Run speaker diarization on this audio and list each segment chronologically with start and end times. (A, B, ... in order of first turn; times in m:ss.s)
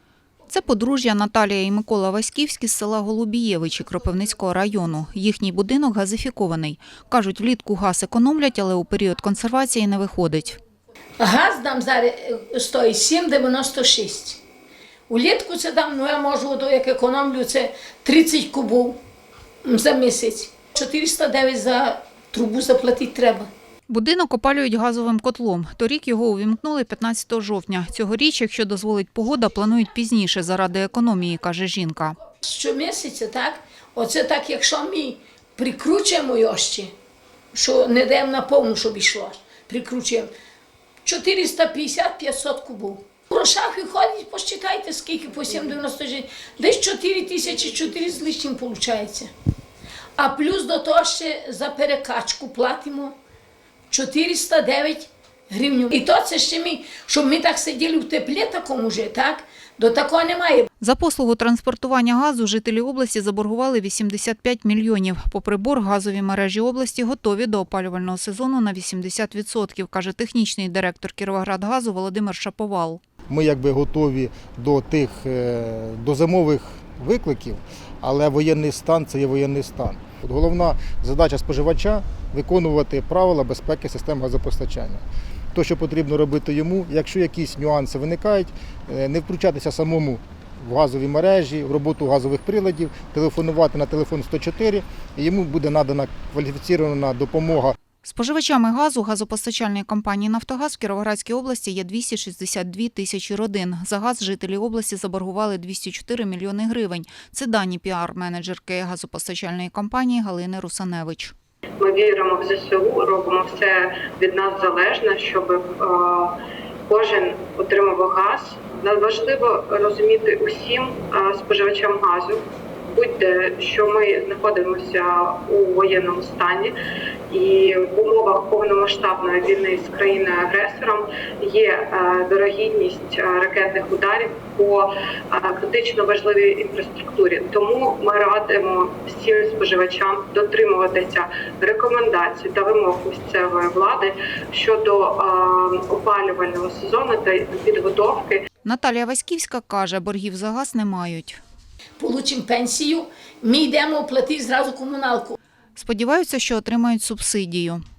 0:00.5-0:10.6 A
0:11.2-0:14.4 B
0:15.1-0:19.0 B
0:19.6-0:23.5 B
0:23.9-0:32.2 A
0:32.3-0:36.9 B
0:37.5-0:40.3 B
0:41.0-0:49.3 B
0:50.2-0:53.2 B
0:53.9-1:00.7 B
1:00.8-1:13.0 A
1:13.3-1:25.0 C
1:25.5-1:37.8 C
1:38.0-1:51.4 A
1:51.8-1:56.3 D
1:56.9-2:06.7 D
2:07.3-2:28.4 D
2:28.6-2:31.4 A
2:32.0-2:35.4 B
2:35.8-2:37.8 A